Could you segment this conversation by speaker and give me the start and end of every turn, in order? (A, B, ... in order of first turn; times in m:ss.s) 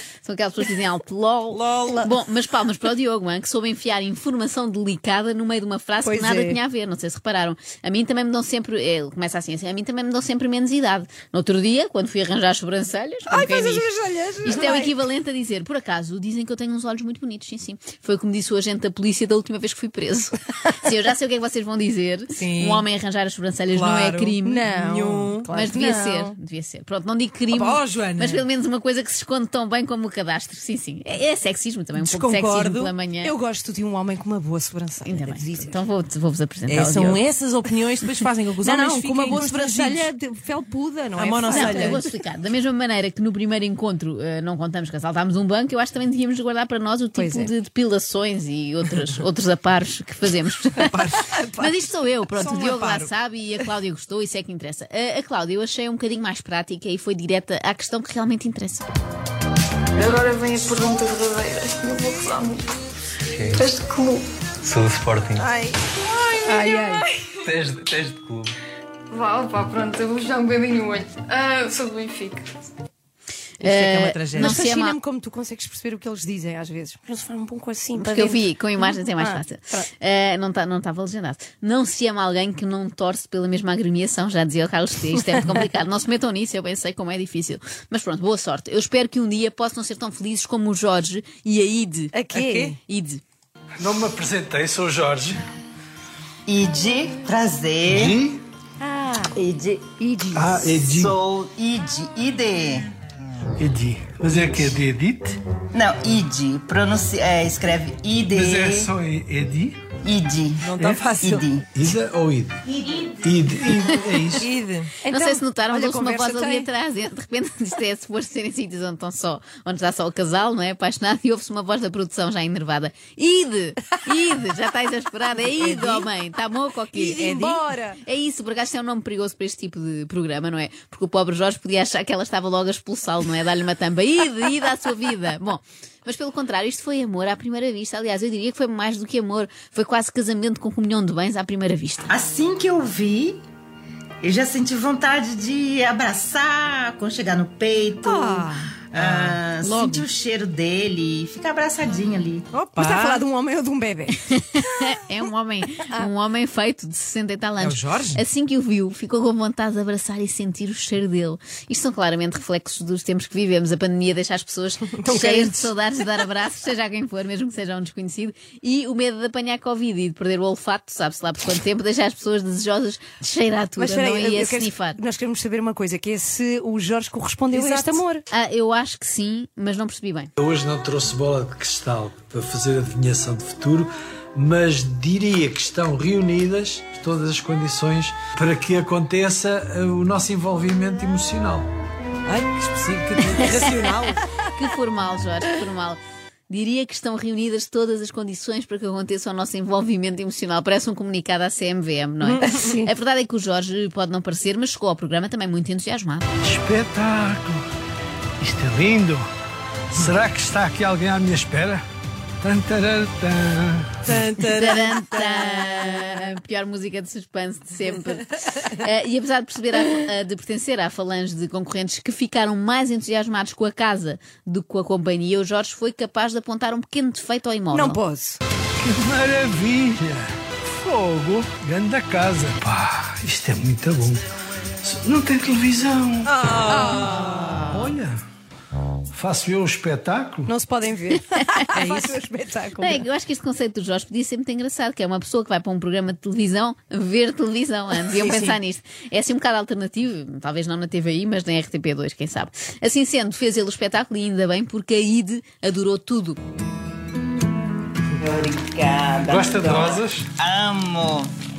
0:00.2-0:13.9 A
0:01.5-0:02.1 B
0:06.0-0:06.6 B
0:13.3-0:15.0 B
0:14.4-0:33.3 A
0:22.4-0:22.8 B
0:23.7-0:26.4 B
0:27.5-0:28.4 B
0:32.0-0:35.8 B
0:35.0-0:37.2 A
0:36.7-0:40.1 C
0:38.1-0:42.0 B
0:41.2-0:42.0 C
0:41.5-0:51.0 A
0:47.2-0:47.5 B
0:50.8-0:53.1 B
0:51.6-0:58.9 A
1:00.0-1:02.8 D
1:03.3-1:03.6 E
1:03.5-1:04.3 D
1:04.6-1:05.4 E
1:05.4-1:05.7 B
1:06.3-1:07.1 B
1:07.4-1:08.6 E
1:09.1-1:12.6 D
1:13.6-1:15.0 A
1:13.6-1:19.9 B
1:18.0-1:33.2 A
1:32.1-1:32.8 B
1:33.8-1:35.4 F
1:36.5-1:38.2 G
1:37.9-1:38.4 F
1:38.8-1:39.3 B
1:39.3-1:42.9 G
1:40.0-1:40.4 B
1:40.3-1:41.2 F
1:43.6-1:45.4 F
1:45.7-1:48.9 G
1:48.3-1:49.8 F
1:50.0-1:51.6 G
1:50.6-1:51.4 B
1:50.8-1:51.0 F
1:51.8-1:54.5 F
1:54.4-1:56.7 B
1:55.1-2:22.1 A
2:05.4-2:06.1 B
2:06.9-2:08.0 B
2:22.1-2:23.4 G
2:24.2-2:32.5 G
2:28.0-2:30.1 B
2:32.5-2:34.2 B
2:34.3-2:55.0 A
2:37.6-2:38.2 B
2:45.0-2:45.7 B
2:53.8-2:58.2 B
2:57.5-3:00.3 A
3:00.4-3:11.7 F
3:12.3-3:14.2 B
3:13.4-3:26.3 A
3:22.2-3:22.9 B
3:26.4-3:27.6 F
3:28.4-3:29.3 F
3:29.9-3:31.8 F
3:32.4-3:34.2 F
3:34.1-3:35.6 B
3:34.4-3:48.0 A
3:47.7-3:48.4 B
3:48.8-3:54.2 F
3:54.8-3:58.2 F
3:56.3-3:57.8 B
3:59.1-4:00.5 F
4:00.5-4:03.0 B
4:02.8-4:16.4 A
4:08.1-4:08.6 B
4:18.2-4:21.3 G
4:19.2-4:20.3 F